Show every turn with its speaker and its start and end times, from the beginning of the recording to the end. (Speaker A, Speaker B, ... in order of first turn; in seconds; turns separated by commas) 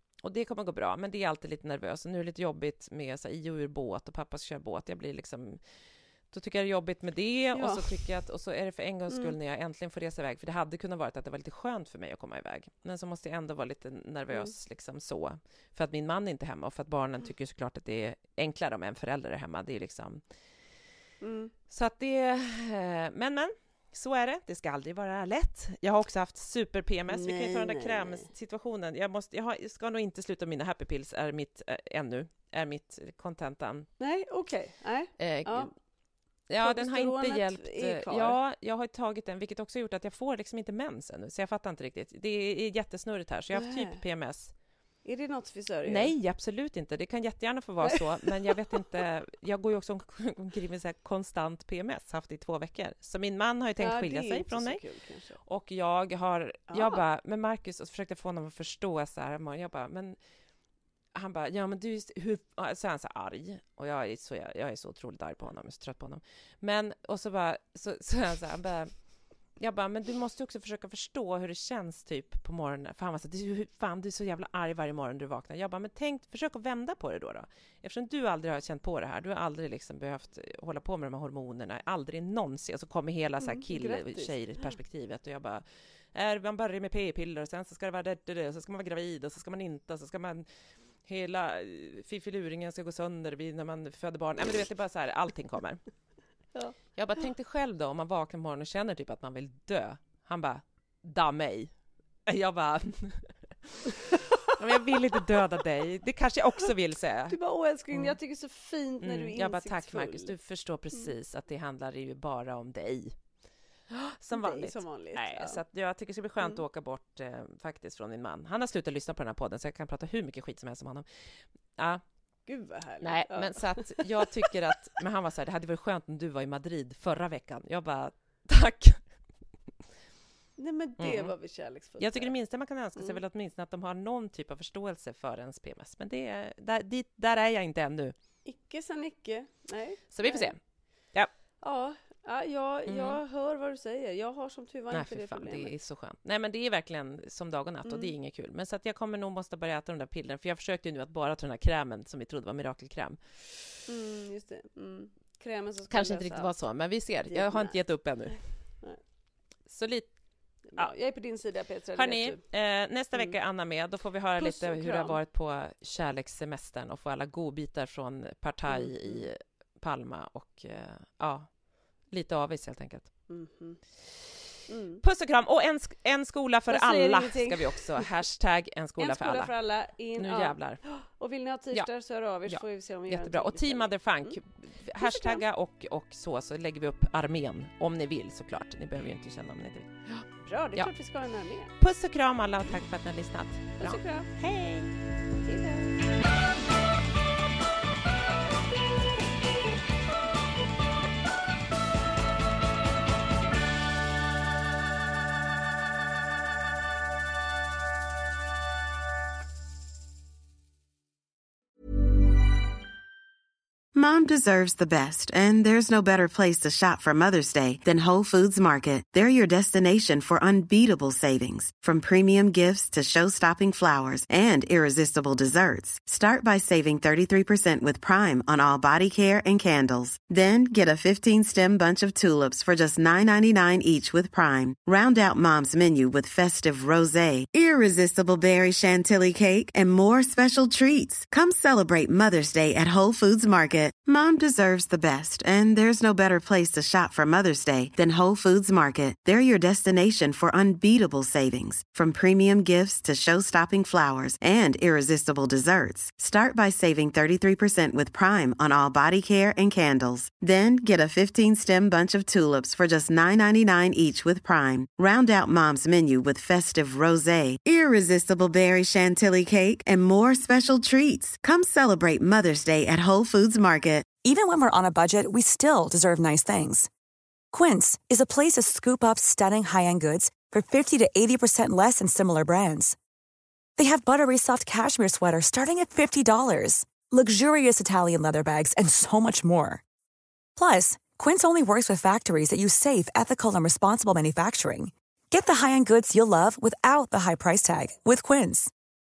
Speaker A: 0.2-20.3, Speaker B: 7.5-8.0, Speaker B: 9.1-9.3, Speaker B: 21.2-21.5, Speaker A: 21.7-33.9, Speaker B: 27.1-28.3, Speaker B: 34.0-35.7, Speaker A: 35.2-35.7, Speaker A: 36.5-44.5, Speaker B: 36.6-38.4, Speaker B: 43.5-44.0, Speaker B: 45.0-46.1, Speaker A: 45.9-54.8, Speaker B: 53.8-55.4, Speaker A: 55.4-60.2, Speaker B: 56.7-57.0, Speaker A: 61.1-69.0, Speaker A: 69.6-90.5, Speaker B: 83.4-84.8, Speaker A: 91.0-95.8, Speaker A: 96.9-101.7, Speaker A: 102.2-103.9, Speaker A: 104.5-107.4, Speaker B: 107.3-110.3, Speaker A: 107.9-108.2, Speaker A: 109.0-113.2, Speaker A: 114.1-122.0, Speaker B: 114.3-115.6, Speaker B: 122.5-124.5, Speaker A: 123.0-129.0, Speaker B: 130.6-132.3, Speaker A: 131.0-131.3, Speaker A: 132.0-138.1, Speaker B: 138.4-140.5, Speaker A: 140.1-140.6, Speaker B: 141.6-145.7, Speaker A: 142.9-143.2, Speaker A: 144.9-153.4, Speaker B: 147.8-148.1, Speaker B: 153.9-156.5, Speaker A: 155.9-158.6, Speaker B: 157.3-157.8, Speaker A: 159.7-160.1, Speaker B: 160.7-162.4, Speaker A: 161.9-171.5, Speaker B: 164.4-165.2, Speaker B: 168.7-169.3, Speaker A: 172.0-173.1, Speaker B: 173.3-173.8, Speaker B: 174.7-175.0, Speaker A: 175.0-179.5, Speaker B: 176.7-178.1, Speaker B: 179.0-184.4, Speaker A: 180.2-180.8, Speaker A: 182.5-190.9, Speaker B: 185.0-185.4, Speaker B: 190.4-191.7, Speaker A: 191.8-194.9, Speaker B: 193.8-194.3, Speaker B: 195.4-195.9, Speaker C: 213.9-274.1, Speaker D: 274.2-276.9, Speaker D: 277.5-282.9, Speaker D: 283.8-289.8, Speaker D: 290.6-298.7